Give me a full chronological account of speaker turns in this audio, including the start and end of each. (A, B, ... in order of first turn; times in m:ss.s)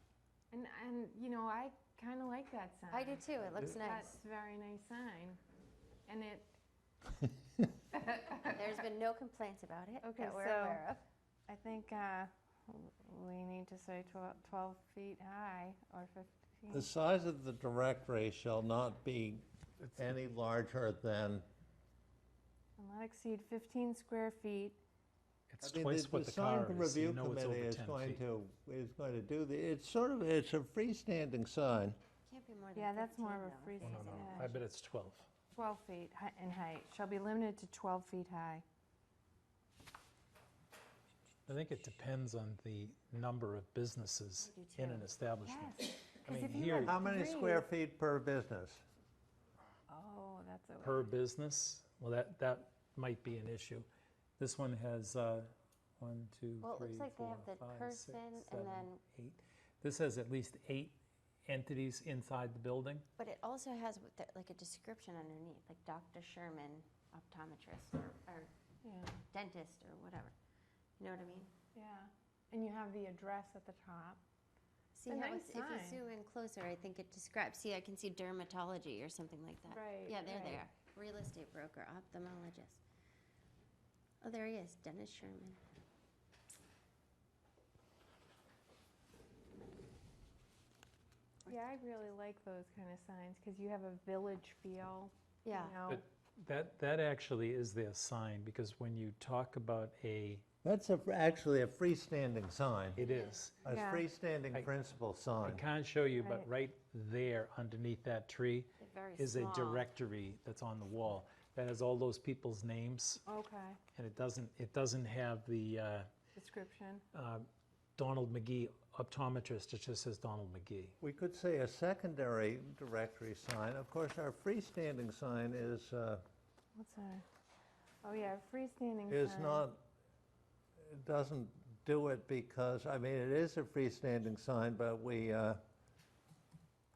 0:00.5-0:05.4 A
0:02.9-0:04.1 B
0:06.1-0:06.5 A
0:07.9-0:08.6 A
0:08.5-0:11.0 B
0:10.0-0:10.8 A
0:11.5-0:16.9 A
0:16.7-0:19.4 C
0:20.0-0:21.5 C
0:22.8-0:24.8 A
0:25.5-0:28.2 D
0:25.6-0:32.0 C
0:32.3-0:34.6 B
0:32.8-0:34.6 A
0:33.8-0:35.3 D
0:35.5-0:38.6 A
0:41.5-0:47.0 D
0:44.4-0:45.1 B
0:45.4-0:47.6 A
0:46.8-0:48.8 C
0:49.9-0:51.1 A
0:50.8-0:53.9 D
0:54.4-1:03.1 D
0:56.6-0:59.0 B
1:03.2-1:08.5 B
1:08.8-1:09.2 A
1:09.3-1:10.3 B
1:11.0-1:11.5 B
1:11.8-1:14.2 A
1:15.0-1:22.8 B
1:15.1-1:16.0 A
1:19.7-1:20.6 A
1:24.2-1:25.6 B
1:31.5-1:36.0 A
1:35.4-1:35.8 B
1:35.9-1:40.4 D
1:40.6-1:43.0 C
1:43.0-1:43.6 D
1:43.0-1:43.4 B
1:43.6-1:45.6 C
1:43.7-1:44.1 A
1:45.4-1:53.2 D
1:46.2-1:46.5 A
1:48.8-1:49.9 B
1:53.3-1:53.8 A
1:54.0-1:56.1 D
1:56.4-1:57.0 A
1:57.1-2:01.0 D
2:01.0-2:06.2 C
2:06.8-2:07.2 A
2:08.0-2:09.7 A
2:09.1-2:09.8 C
2:10.8-2:15.6 C